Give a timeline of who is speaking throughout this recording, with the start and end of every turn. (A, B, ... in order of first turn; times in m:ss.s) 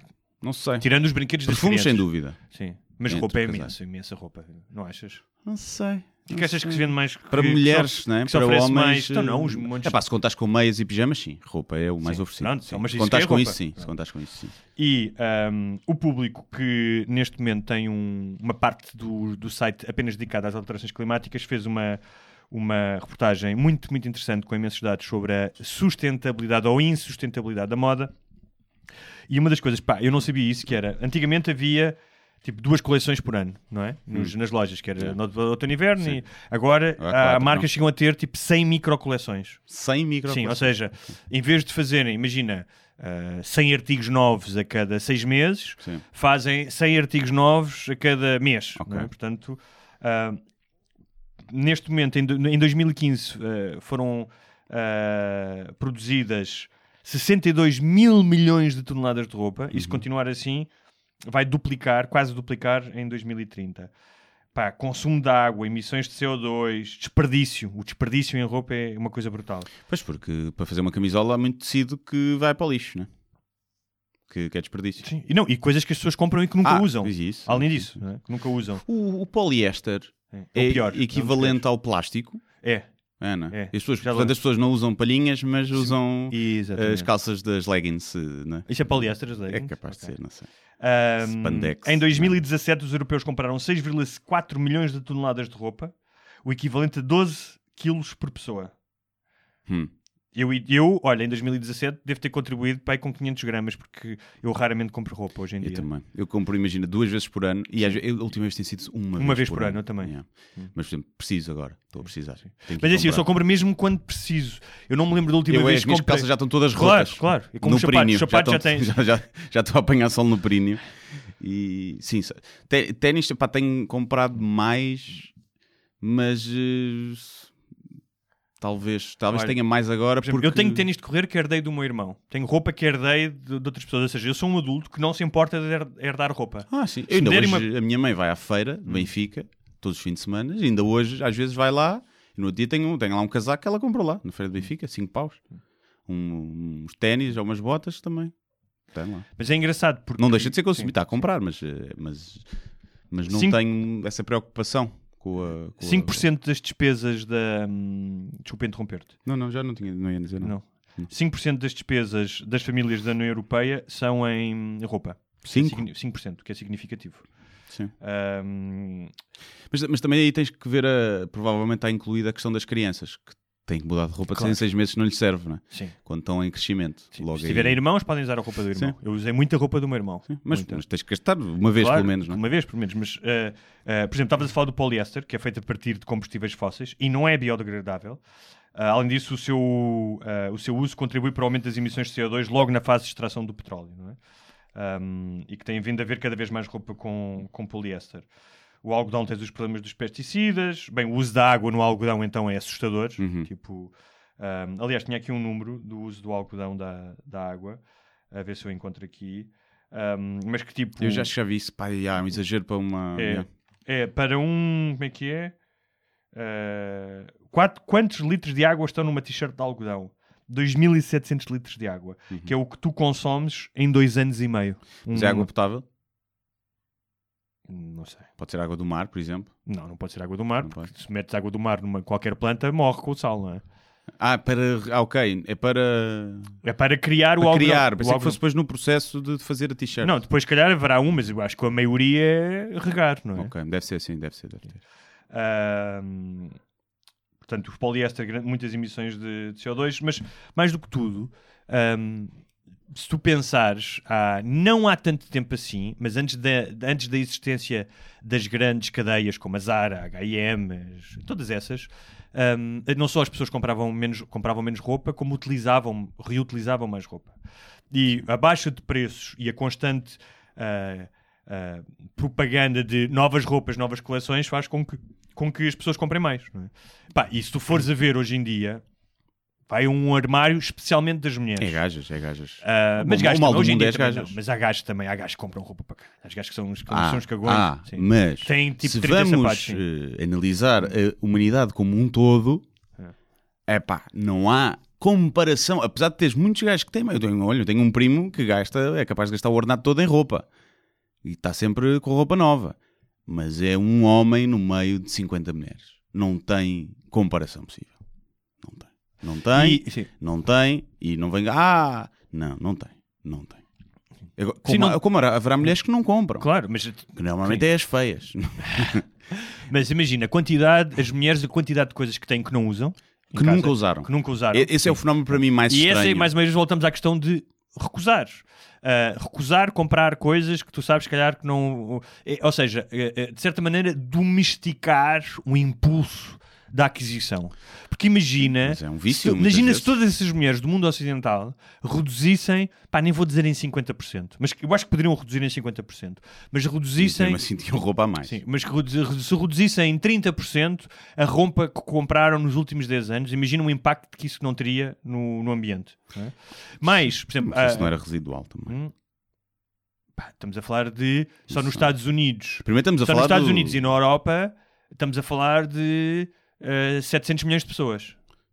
0:00.4-0:00.8 A
0:00.8-0:05.2 B
0:01.4-0:02.4 A
0:03.1-0:03.7 A
0:05.4-0:14.5 A
0:06.3-0:10.0 B
0:12.0-0:13.9 B
0:14.8-0:22.0 B
0:22.5-0:28.1 B
0:29.3-0:39.6 B
0:37.0-0:37.7 A
0:39.7-0:40.7 A
0:40.3-0:50.4 B
0:48.8-0:49.1 A
0:51.5-1:00.7 B
0:59.7-1:00.0 A
1:01.2-1:03.9 B
1:04.5-1:09.7 B
1:09.9-1:13.1 A
1:14.3-1:15.0 A
1:15.0-1:18.8 B
1:16.6-1:17.9 A
1:18.8-1:22.4 A
1:20.3-1:21.6 B
1:23.2-1:28.7 A
1:23.5-1:24.3 B
1:25.8-1:27.1 B
1:28.7-1:30.1 B
1:29.5-1:30.5 A
1:30.8-1:35.9 B
1:31.2-1:32.4 A
1:36.4-1:38.7 B
1:40.3-1:45.8 B
1:45.6-1:53.2 A
1:49.2-1:50.7 B
1:52.6-1:58.9 B
1:55.5-2:00.8 A
2:01.4-2:05.3 A
2:06.0-2:07.5 A
2:08.6-2:10.8 A
2:10.2-2:17.7 B
2:16.7-2:25.4 A
2:26.1-2:28.3 A
2:28.9-2:29.3 A
2:29.4-2:30.9 B
2:30.2-2:32.5 A
2:33.1-2:36.2 A
2:33.3-2:33.6 B
2:35.8-2:39.1 B
2:39.2-2:41.1 A
2:40.4-2:47.2 B
2:45.4-2:45.8 A
2:48.0-2:49.1 B
2:49.7-2:57.8 A
2:54.3-2:54.6 B
2:57.1-3:00.8 B
3:00.3-3:02.4 A
3:01.8-3:08.2 B
3:08.7-3:14.2 B
3:14.7-3:18.2 B
3:18.8-3:27.8 B
3:23.2-3:23.5 A
3:28.3-3:31.3 B
3:31.0-3:33.4 A
3:33.2-3:35.5 B
3:36.3-3:45.5 B
3:45.0-3:45.8 A
3:47.7-3:48.3 B
3:48.4-3:49.5 A
3:49.7-3:53.6 B
3:50.6-3:50.9 A
3:54.2-3:56.5 A
3:56.6-3:58.4 B
3:57.4-4:00.1 A
4:00.0-4:03.5 B
4:03.4-4:04.8 A
4:05.3-4:06.5 B
4:07.4-4:12.3 B
4:12.9-4:27.3 B
4:27.9-4:38.8 B
4:39.7-4:41.8 B
4:41.6-4:44.3 A
4:42.6-4:49.8 B
4:46.9-4:52.6 A
4:53.7-5:00.4 A
5:01.2-5:08.0 A
5:08.6-5:13.6 A
5:09.5-5:10.1 B
5:14.4-5:16.5 A
5:14.6-5:15.0 B
5:16.4-5:17.6 B
5:17.1-5:19.0 A
5:18.7-5:25.0 B
5:23.3-5:26.3 A
5:25.7-5:47.4 B
5:38.6-5:39.9 A
5:47.0-5:48.4 A
5:48.2-5:57.9 B
5:57.4-5:58.8 A
5:58.7-5:58.9 B
6:00.2-6:08.2 B
6:01.5-6:01.9 A
6:02.6-6:03.9 A